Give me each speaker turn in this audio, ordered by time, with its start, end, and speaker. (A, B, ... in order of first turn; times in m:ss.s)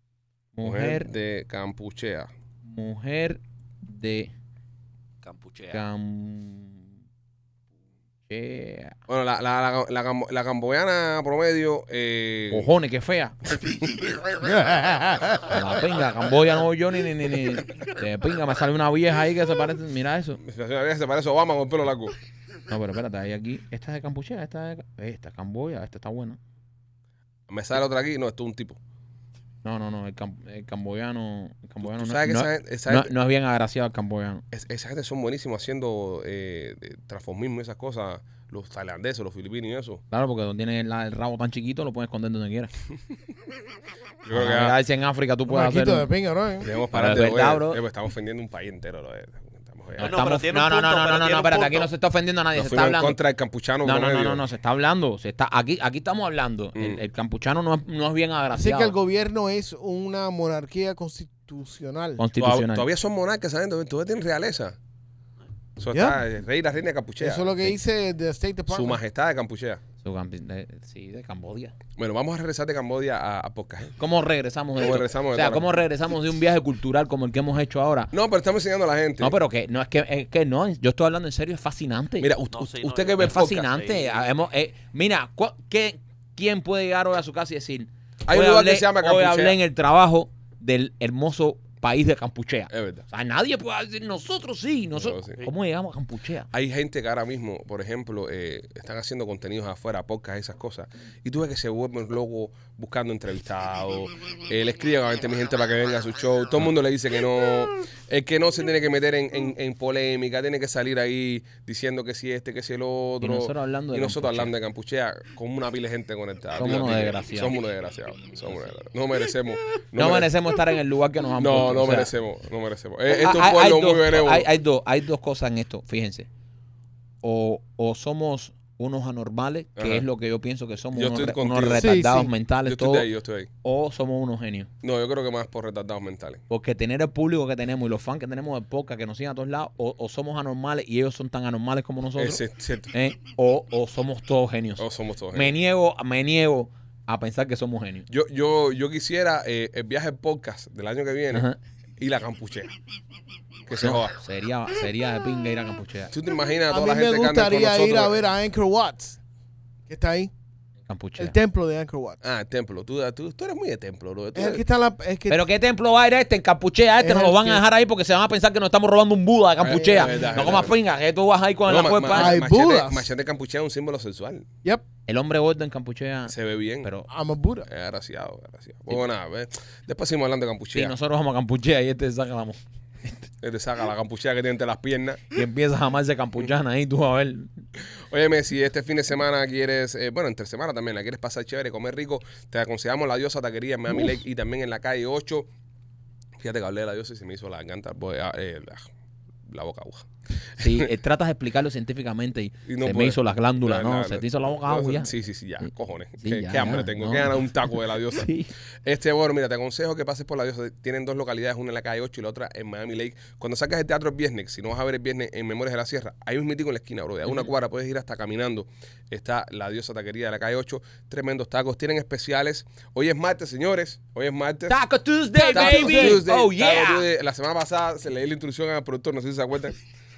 0:00.6-0:01.1 A
0:00.6-0:02.3 B
0:02.6-0:04.3 A
0:05.2-0:05.9 C
0:05.7-0:06.9 A
0:08.3-0:09.0 A
0:09.1-0:12.7 B
0:12.5-0:13.4 A
0:13.6-0:14.0 B
0:14.4-0:15.6 D
0:15.4-0:20.4 A
0:20.4-0:22.2 B
0:22.7-0:26.4 A
0:27.5-0:28.8 B
0:29.6-0:34.4 A
0:31.8-0:33.1 B
0:34.5-0:40.0 B
0:40.1-0:42.7 A
0:44.2-0:44.8 B
0:44.3-0:46.1 A
0:45.5-0:46.7 D
0:46.6-0:50.2 B
0:46.9-0:47.8 A
0:50.0-0:53.2 A
0:50.0-0:51.9 C
0:52.5-0:54.4 B
0:53.8-0:58.9 A
0:56.8-0:57.0 B
0:58.5-1:02.2 D
1:02.2-1:02.9 A
1:02.4-1:04.8 B
1:05.8-1:07.5 B
1:05.9-1:06.2 D
1:07.2-1:09.0 D
1:08.7-1:09.8 B
1:10.0-1:11.8 A
1:12.0-1:14.0 B
1:14.0-1:18.1 A
1:14.8-1:15.7 B
1:18.1-1:19.4 B
1:19.2-1:22.3 A
1:22.2-1:23.7 B
1:22.5-1:24.2 C
1:23.2-1:36.5 A
1:28.3-1:29.6 B
1:32.7-1:33.0 B
1:35.0-1:35.5 B
1:36.5-2:00.3 B
1:53.2-1:54.5 A
1:56.6-1:57.6 A
2:00.0-2:02.1 A
2:01.4-2:04.5 B
2:03.1-2:06.3 A
2:07.2-2:13.1 A
2:09.8-2:10.1 B
2:10.9-2:12.0 B
2:11.8-2:12.3 D
2:12.6-2:13.5 B
2:13.6-2:14.7 A
2:14.8-2:16.4 B
2:16.5-2:28.1 A
2:22.2-2:22.9 B
2:24.8-2:25.6 B
2:28.1-2:31.5 B
2:31.3-2:31.6 A
2:32.0-2:32.7 B
2:33.7-2:34.2 B
2:33.8-2:36.1 A
2:36.1-2:38.2 B
2:36.7-2:39.2 D
2:39.9-2:40.3 D
2:40.9-2:41.4 A
2:41.2-2:42.2 D
2:42.2-2:44.6 B
2:44.4-2:45.4 D
2:45.3-2:52.4 A
2:47.0-2:47.6 D
2:49.6-2:50.8 B
2:49.7-2:50.6 D
2:51.7-2:54.5 B
2:52.1-2:53.1 D
2:55.1-2:57.1 A
2:56.3-2:56.9 B
2:57.1-2:57.7 D
2:57.7-3:01.0 B
3:00.7-3:03.2 A
3:03.4-3:05.3 B
3:05.3-3:07.5 A
3:08.1-3:15.5 B
3:16.4-3:18.9 B
3:19.5-3:20.9 B
3:20.6-3:25.1 A
3:22.7-3:28.3 B
3:26.2-3:28.5 A
3:28.8-3:44.8 B
3:44.7-3:47.1 A
3:45.4-3:46.2 D
3:45.5-3:49.8 B